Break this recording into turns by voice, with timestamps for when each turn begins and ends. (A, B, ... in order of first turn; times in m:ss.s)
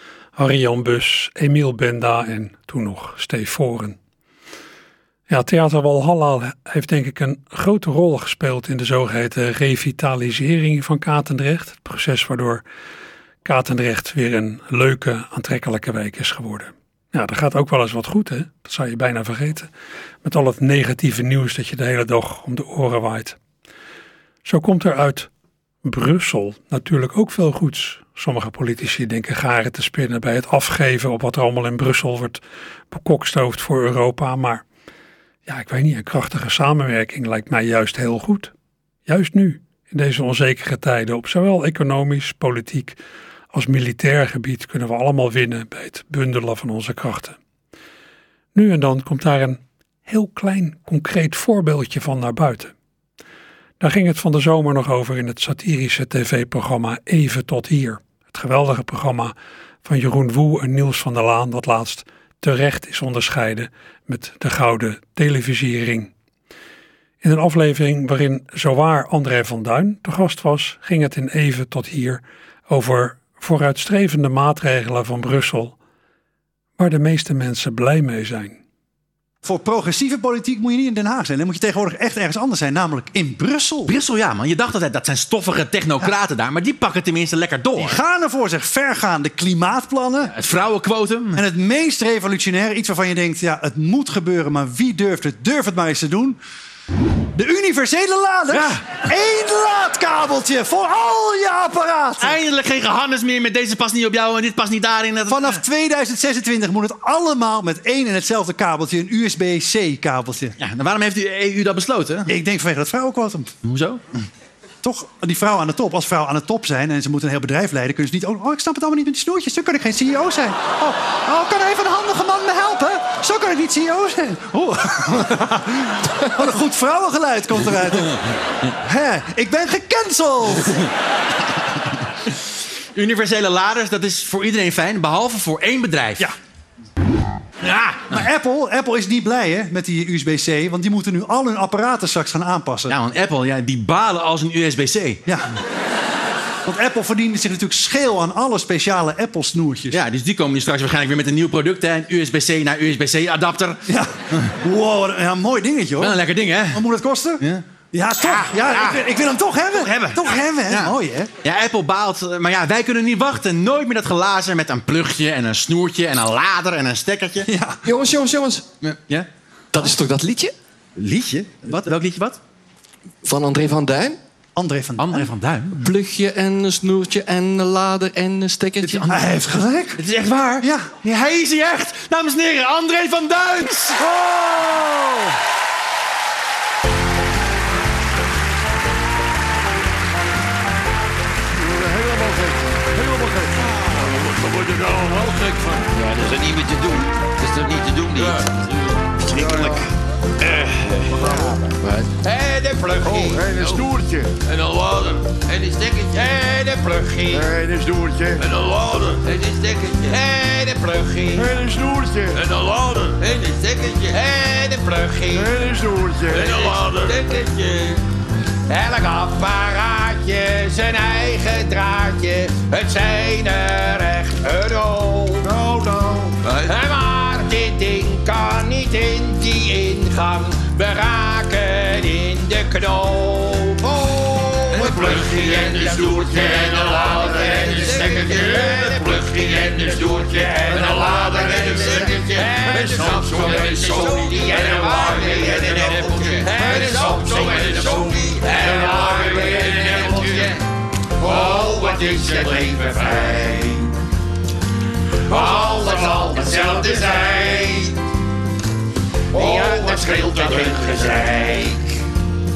0:00.4-0:04.0 A
0:05.3-0:12.6 A
0:13.4-0:19.7 A
0:20.2-0:23.4 A
0:24.4-0:25.3 A
0:25.8-0:34.6 A
0:35.4-0:38.5 A
0:39.0-0:43.0 A
0:43.5-0:47.4 A
0:48.5-0:52.7 A
0:53.8-0:59.3 A
0:59.8-1:06.1 A
1:07.2-1:15.8 A
1:16.8-1:18.6 A
1:19.4-1:23.9 B
1:23.9-1:28.0 C
1:27.8-1:30.3 B
1:30.3-1:31.4 C
1:31.3-1:36.4 B
1:37.3-1:42.4 B
1:38.5-1:38.9 C
1:42.2-1:45.6 C
1:45.3-1:50.5 B
1:50.6-1:52.3 C
1:52.3-1:53.5 B
1:53.6-1:54.0 C
1:54.8-2:08.2 B
2:08.8-2:10.8 B
2:12.9-2:16.2 C
2:17.6-2:22.9 B
2:22.9-2:25.2 C
2:26.6-2:30.0 B
2:29.9-2:33.8 C
2:33.9-2:41.3 B
2:36.0-2:36.8 C
2:38.1-2:39.1 C
2:39.6-2:47.5 C
2:47.5-2:47.8 B
2:47.8-2:48.7 D
2:48.8-2:49.3 C
2:49.7-2:50.5 D
2:51.0-2:52.4 C
2:51.6-2:52.0 B
2:53.2-2:54.2 D
2:54.6-2:55.3 B
2:55.0-2:55.8 C
2:55.7-2:59.2 D
2:58.8-3:00.0 B
2:58.8-2:59.2 C
3:00.0-3:04.0 C
3:00.6-3:00.9 B
3:11.6-3:15.8 E
3:15.9-3:18.5 F
3:19.3-3:19.8 E
3:19.3-3:19.8 C
3:20.4-3:21.0 F
3:21.1-3:21.6 E
3:22.0-3:23.8 F
3:23.0-3:24.3 E
3:24.5-3:27.5 F
3:27.3-3:28.5 E
3:28.4-3:31.5 F
3:31.3-3:32.5 E
3:32.5-3:35.5 F
3:35.3-3:36.8 E
3:36.3-3:38.0 F
3:38.7-3:45.5 F
3:45.4-3:46.4 E
3:46.4-4:10.6 F
4:11.2-4:13.9 F
4:15.3-4:17.9 F
4:19.3-4:22.0 F